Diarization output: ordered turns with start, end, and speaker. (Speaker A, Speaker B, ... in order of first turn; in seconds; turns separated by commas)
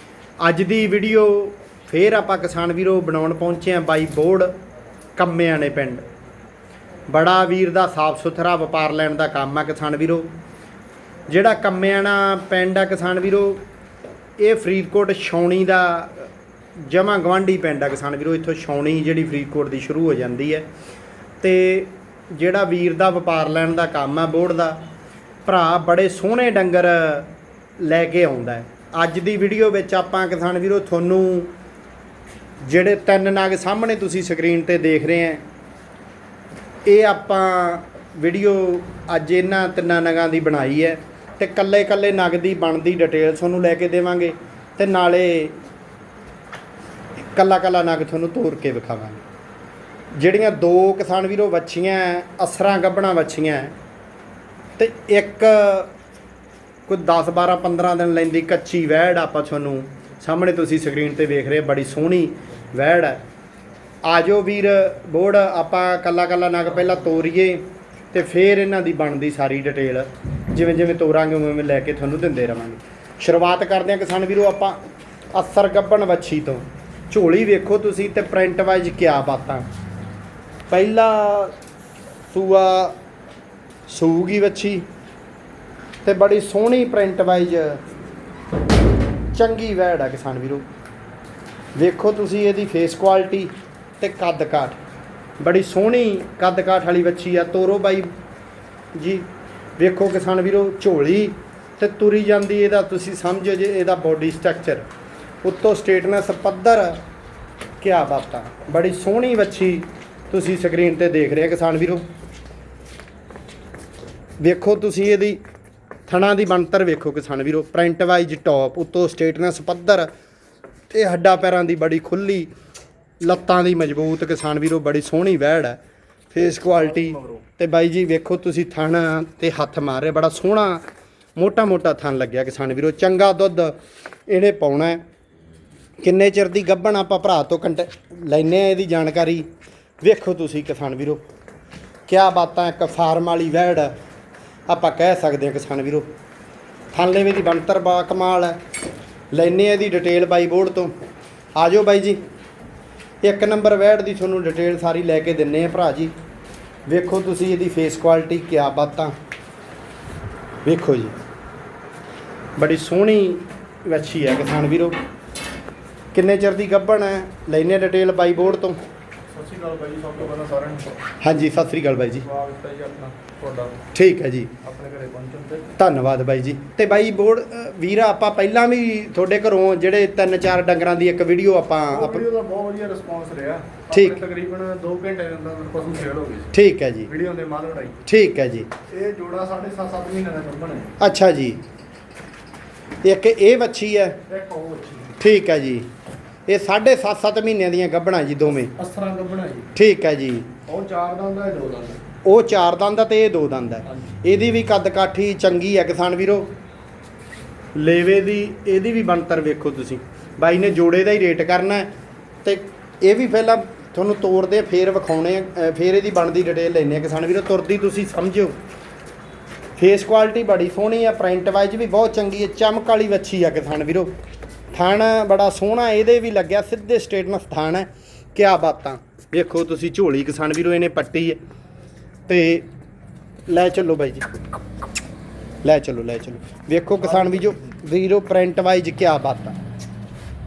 Speaker A: 0.4-4.5, Speaker A: 5.2-6.0, Speaker A: 7.1-10.3, Speaker A: 11.3-13.6, Speaker A: 14.4-16.3, Speaker A: 16.9-20.7, Speaker A: 21.4-24.9, Speaker A: 25.4-31.5, Speaker A: 32.6-35.4, Speaker A: 36.9-45.5, Speaker A: 47.3-49.2, Speaker A: 50.2-53.8, Speaker A: 54.8-55.9, Speaker A: 56.9-63.2, Speaker A: 64.0-74.8, Speaker A: 75.3-79.7, Speaker A: 80.7-81.5, Speaker A: 82.3-83.0, Speaker A: 83.9-84.8, Speaker A: 86.0-87.8, Speaker A: 89.3-90.7, Speaker A: 91.8-94.8, Speaker A: 95.4-98.1, Speaker A: 99.0-99.3, Speaker A: 99.8-104.9, Speaker A: 105.4-107.0, Speaker A: 107.8-112.0, Speaker A: 114.4-115.4, Speaker A: 116.1-120.1, Speaker A: 120.9-122.5, Speaker A: 123.2-125.8, Speaker A: 126.3-130.8, Speaker B: 126.6-127.4, Speaker A: 131.4-133.8, Speaker A: 134.3-135.0, Speaker A: 136.0-139.5, Speaker A: 140.0-141.2, Speaker A: 142.1-143.9, Speaker A: 144.7-146.1, Speaker A: 146.9-148.6, Speaker A: 149.3-150.9, Speaker A: 151.6-152.2, Speaker A: 153.2-156.1, Speaker A: 156.9-159.1, Speaker A: 160.7-161.2, Speaker A: 162.6-165.0, Speaker A: 166.1-168.8, Speaker B: 169.3-170.9, Speaker A: 171.2-172.3, Speaker B: 172.2-173.8, Speaker A: 173.9-174.5, Speaker B: 174.6-175.7, Speaker A: 175.8-182.2, Speaker B: 181.9-186.5, Speaker A: 183.9-184.2, Speaker A: 186.5-187.1, Speaker B: 187.1-188.0, Speaker A: 188.1-188.7, Speaker B: 188.9-191.0, Speaker A: 191.0-191.6, Speaker A: 193.0-194.2, Speaker B: 194.3-195.2, Speaker A: 195.2-195.9, Speaker A: 196.5-198.7, Speaker B: 198.5-199.7, Speaker A: 199.8-200.5, Speaker B: 200.7-202.0, Speaker A: 202.2-206.5, Speaker A: 207.8-211.9, Speaker A: 212.4-218.6, Speaker A: 219.8-224.1, Speaker A: 224.7-231.4, Speaker A: 232.3-232.7, Speaker A: 233.5-234.3, Speaker A: 235.6-239.6, Speaker B: 237.1-237.6